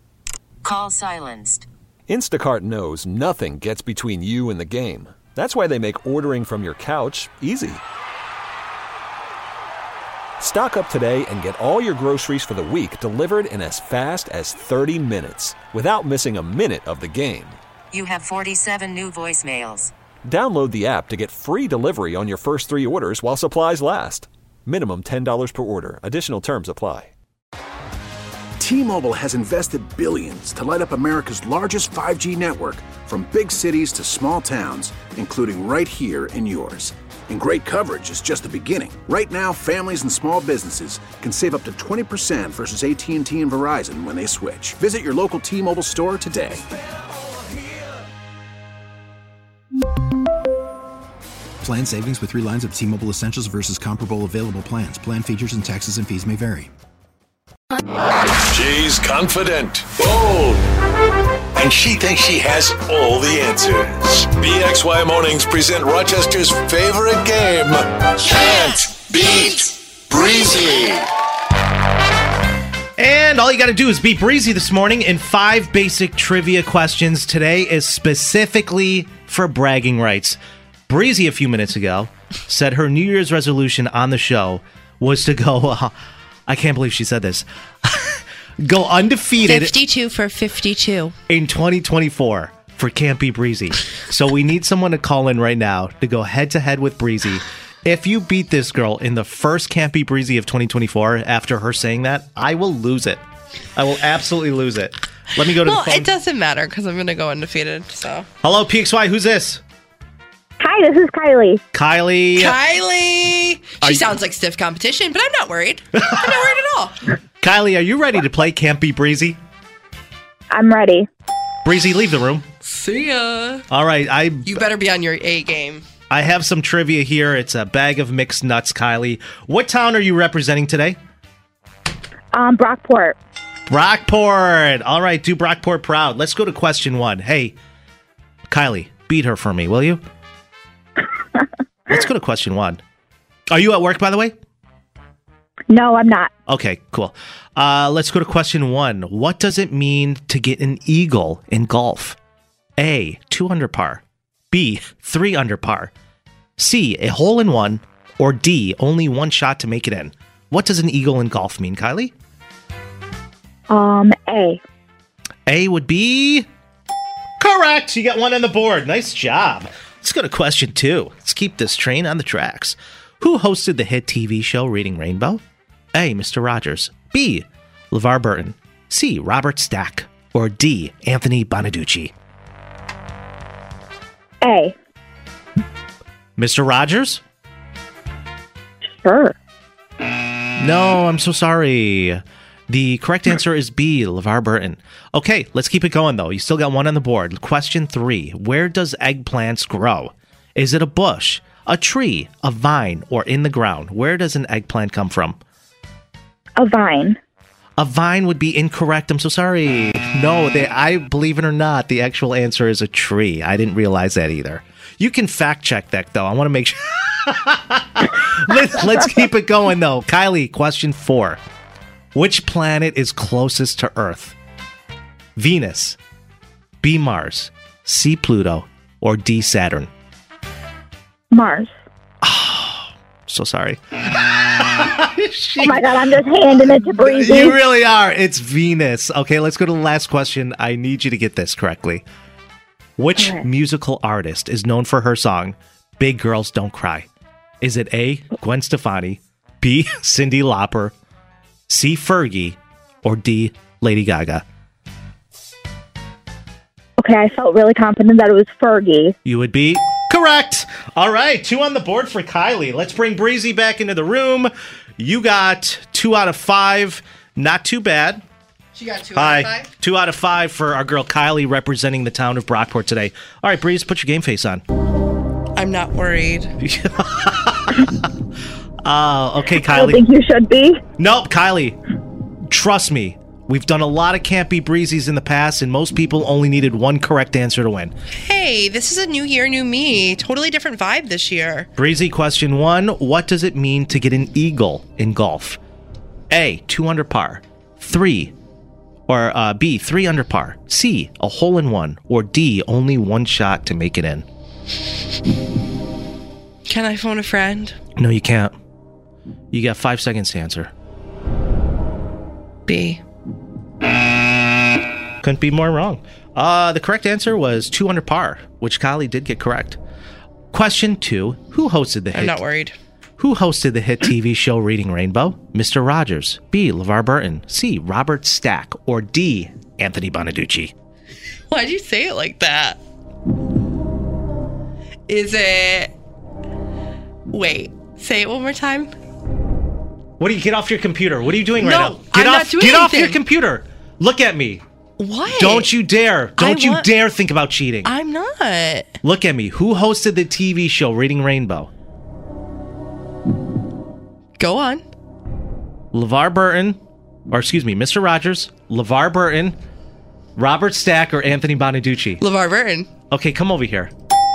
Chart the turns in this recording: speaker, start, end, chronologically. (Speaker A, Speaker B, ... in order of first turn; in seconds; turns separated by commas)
Speaker A: 0.6-1.7, Speaker B: 2.1-7.8, Speaker B: 10.4-17.6, Speaker A: 17.9-19.9, Speaker B: 20.2-27.1, Speaker C: 28.6-46.6, Speaker D: 51.6-56.7, Speaker E: 58.5-60.6, Speaker E: 61.5-71.1, Speaker F: 73.0-85.9, Speaker F: 86.5-89.8, Speaker G: 89.4-91.1, Speaker F: 91.3-103.2, Speaker F: 103.8-106.1, Speaker G: 105.4-108.2, Speaker F: 108.4-109.6, Speaker H: 110.6-111.6, Speaker F: 111.7-112.6, Speaker G: 112.3-117.0, Speaker F: 113.8-114.1, Speaker F: 117.4-119.4, Speaker H: 120.5-121.1, Speaker F: 121.6-122.5, Speaker G: 122.6-123.6, Speaker F: 123.7-124.6, Speaker G: 124.4-125.8, Speaker F: 126.1-131.0, Speaker H: 132.3-133.2, Speaker F: 133.7-137.6, Speaker F: 138.5-140.0, Speaker F: 141.9-142.8, Speaker F: 143.5-144.3, Speaker H: 145.7-146.3, Speaker F: 146.5-152.2, Speaker F: 152.8-155.9, Speaker F: 156.6-162.1, Speaker H: 163.7-164.6, Speaker F: 165.5-166.5, Speaker F: 167.4-175.4, Speaker F: 175.9-182.1, Speaker H: 184.4-184.7, Speaker F: 186.4-187.2, Speaker H: 188.9-189.3, Speaker F: 190.6-205.4, Speaker H: 206.6-207.2, Speaker F: 207.8-221.4, Speaker F: 222.1-224.3, Speaker F: 225.3-226.0, Speaker F: 226.8-229.9, Speaker H: 231.3-231.7, Speaker F: 232.2-235.8, Speaker H: 235.6-237.6, Speaker F: 236.5-242.1, Speaker F: 243.0-247.1, Speaker H: 243.2-243.5, Speaker F: 247.6-250.9, Speaker F: 251.7-254.4, Speaker H: 257.0-259.1, Speaker F: 259.2-268.2, Speaker G: 268.7-269.7, Speaker F: 269.1-274.6, Speaker G: 275.5-276.5, Speaker F: 276.6-278.1, Speaker F: 278.8-280.0, Speaker H: 279.6-280.8, Speaker F: 280.9-281.8, Speaker F: 282.5-287.9, Speaker G: 288.2-291.7, Speaker F: 291.8-295.6, Speaker F: 296.3-298.3, Speaker F: 299.1-304.2, Speaker G: 306.6-307.8, Speaker F: 307.9-308.6, Speaker F: 309.5-310.7, Speaker G: 312.7-313.0, Speaker F: 315.2-319.8, Speaker F: 320.5-322.4, Speaker G: 322.1-322.7, Speaker F: 323.2-330.7, Speaker G: 331.5-332.8, Speaker G: 335.1-335.9, Speaker G: 337.3-338.9, Speaker F: 340.2-344.6, Speaker G: 341.6-343.2, Speaker G: 345.0-345.7, Speaker F: 345.3-347.9, Speaker G: 346.4-346.9, Speaker G: 347.8-348.9, Speaker F: 349.0-351.7, Speaker G: 354.4-354.8, Speaker F: 355.9-359.6, Speaker F: 360.4-362.2, Speaker G: 362.2-362.9, Speaker F: 363.1-363.9